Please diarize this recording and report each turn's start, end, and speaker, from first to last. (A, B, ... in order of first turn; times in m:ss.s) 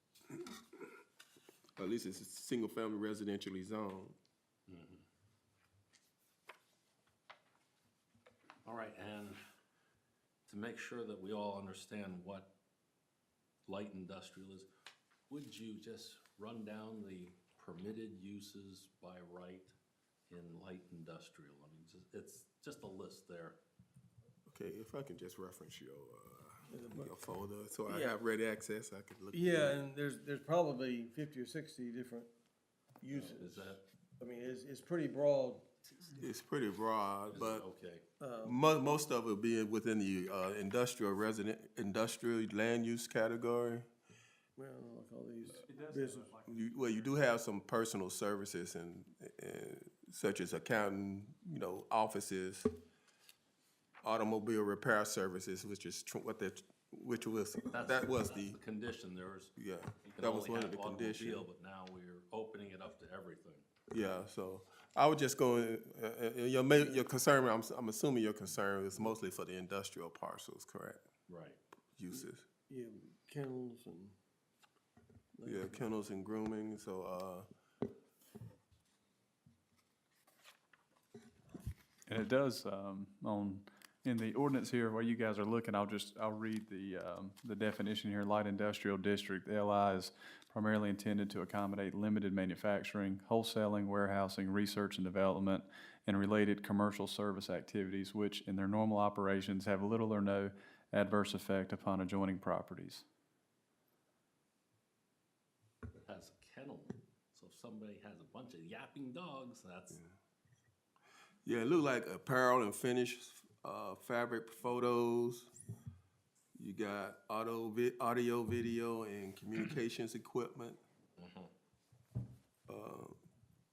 0:01.8-0:04.2 A
0:04.7-0:05.0 B
0:08.6-0:09.4 B
0:10.5-0:12.5 B
0:13.7-0:14.7 B
0:15.3-0:19.7 B
0:20.3-0:23.6 B
0:24.5-0:29.9 A
0:26.7-0:27.1 C
0:27.9-0:28.2 C
0:29.3-0:32.3 C
0:33.0-0:35.7 C
0:33.1-0:33.8 B
0:36.2-0:37.6 A
0:37.3-0:38.0 B
0:38.2-0:38.6 C
0:38.4-0:43.9 A
0:44.6-0:46.3 C
0:45.5-0:47.3 D
0:46.5-0:52.7 A
0:54.0-0:58.6 A
0:57.7-0:59.5 B
0:59.6-1:01.4 A
1:00.0-1:03.6 B
1:03.9-1:11.0 A
1:11.3-1:11.6 B
1:12.0-1:12.4 A
1:12.1-1:14.2 C
1:15.3-1:15.8 C
1:15.4-1:17.5 A
1:22.1-1:43.0 D
1:46.0-1:50.0 B
1:51.4-1:55.5 A
1:56.6-2:00.8 A
2:01.2-2:01.5 B
2:02.7-2:03.2 A